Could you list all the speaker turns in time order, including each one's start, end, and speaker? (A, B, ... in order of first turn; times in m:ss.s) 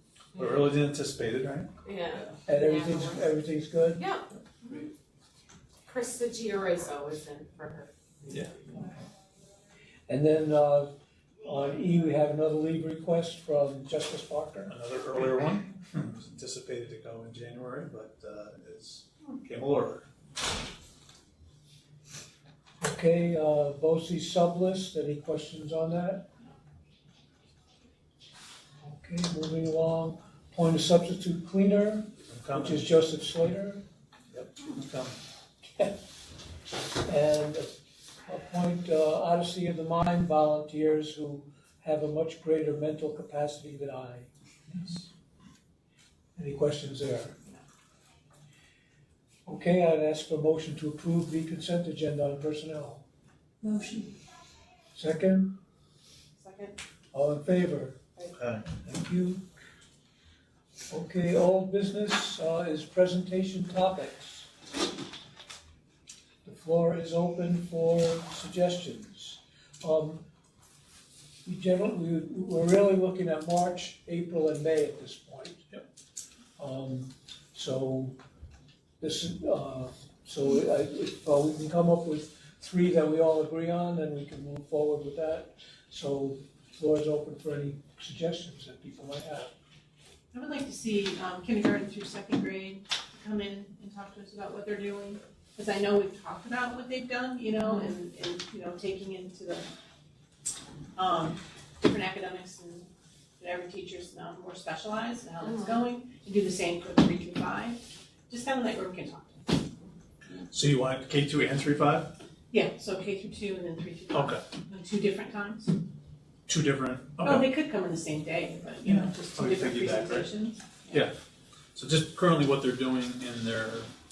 0:00.4-0:01.7 A
0:01.8-0:03.4 B
0:02.4-0:04.1 C
0:04.0-0:04.9 B
0:05.9-0:08.6 B
0:08.3-0:08.5 A
0:10.1-0:10.9 C
0:11.4-0:14.8 C
0:14.7-0:20.1 A
0:22.8-0:26.3 C
0:28.8-0:33.8 C
0:32.3-0:32.9 A
0:34.3-0:35.2 A
0:36.9-0:37.7 C
0:38.3-0:44.8 C
0:46.4-0:47.4 C
0:49.5-0:53.0 C
0:53.6-0:54.1 B
0:55.0-0:55.6 C
0:56.4-0:56.8 D
0:57.1-0:58.0 C
0:58.3-0:58.6 A
0:58.8-0:59.4 C
1:00.9-1:04.5 C
1:06.4-1:10.2 C
1:11.4-1:15.7 C
1:16.6-1:18.2 C
1:19.0-1:29.5 C
1:30.3-1:39.7 D
1:41.0-1:49.5 D
1:45.4-1:45.8 B
1:50.5-1:52.1 A
1:52.5-1:55.8 D
1:54.1-1:54.4 A
1:56.5-1:57.5 A
1:57.2-2:01.1 D
1:58.9-2:00.3 A
2:00.9-2:01.2 A
2:01.8-2:03.9 A